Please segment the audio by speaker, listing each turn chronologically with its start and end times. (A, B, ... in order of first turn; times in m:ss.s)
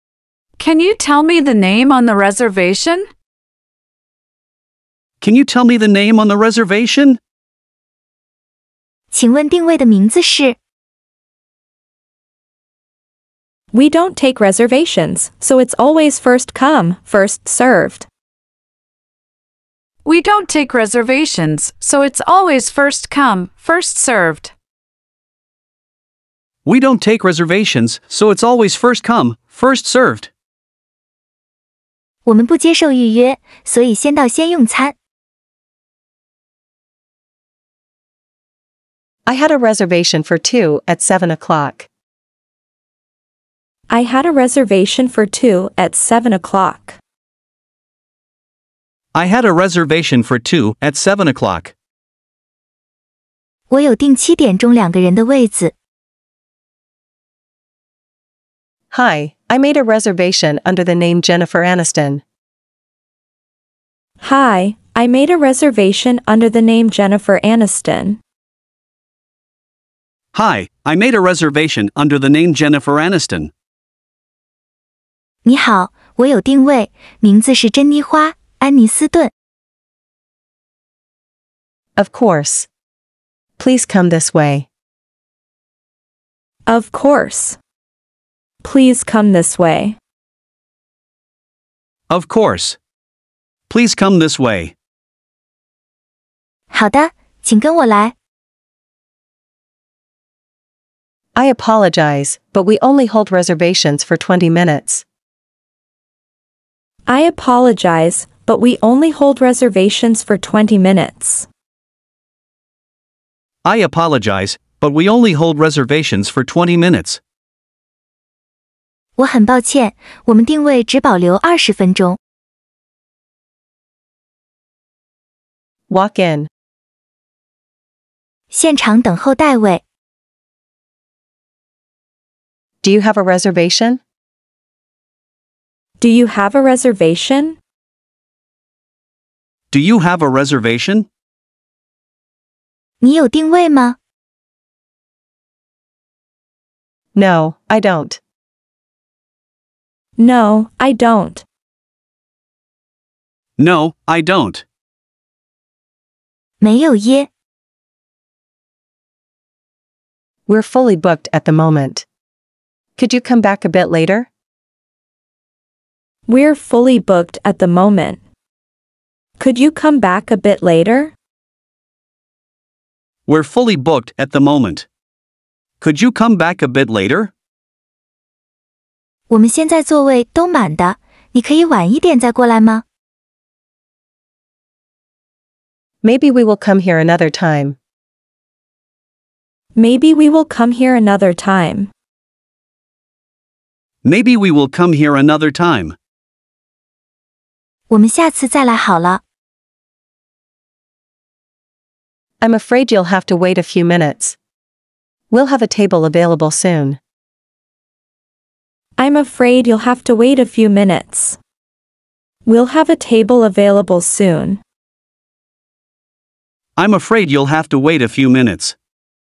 0:00.6-0:03.1 A
0:05.2-0:07.2 B
0:09.1-0:10.6 C
0:13.7-0:18.1 D
0:20.0-0:24.5 A
0:26.6-0:30.3 B
0:32.2-0:34.9 C
0:39.2-0:41.9 E
0:43.9-0:47.0 D
0:49.1-0:51.7 B
0:53.7-0:55.7 C
0:58.9-1:02.2 E
1:04.2-1:08.2 D
1:10.3-1:13.5 B
1:15.4-1:19.3 C
1:22.0-1:22.7 E
1:23.6-1:24.7 E
1:26.7-1:27.6 D
1:28.6-1:30.0 D
1:32.1-1:32.8 B
1:33.7-1:34.7 B
1:36.7-1:38.1 C
1:41.3-1:45.0 E
1:47.1-1:51.5 D
1:53.6-1:57.2 B
1:59.2-2:02.2 C
2:05.9-2:06.5 E
2:08.5-2:09.8 C
2:12.8-2:14.0 E
2:16.0-2:17.6 D
2:19.7-2:21.1 B
2:23.0-2:24.0 C
2:27.1-2:28.2 E
2:30.2-2:31.4 D
2:33.6-2:34.6 B
2:36.6-2:37.3 C
2:40.5-2:42.0 E
2:43.0-2:44.3 E
2:46.3-2:48.2 D
2:49.4-2:51.1 D
2:53.3-2:54.8 B
2:55.8-2:57.3 B
2:59.3-3:02.8 C
3:06.0-3:07.8 E
3:09.8-3:11.9 D
3:14.0-3:15.9 B
3:17.9-3:19.2 C
3:22.4-3:24.4 E
3:25.3-3:27.0 E
3:29.0-3:31.4 D
3:32.4-3:34.6 D
3:36.8-3:38.8 B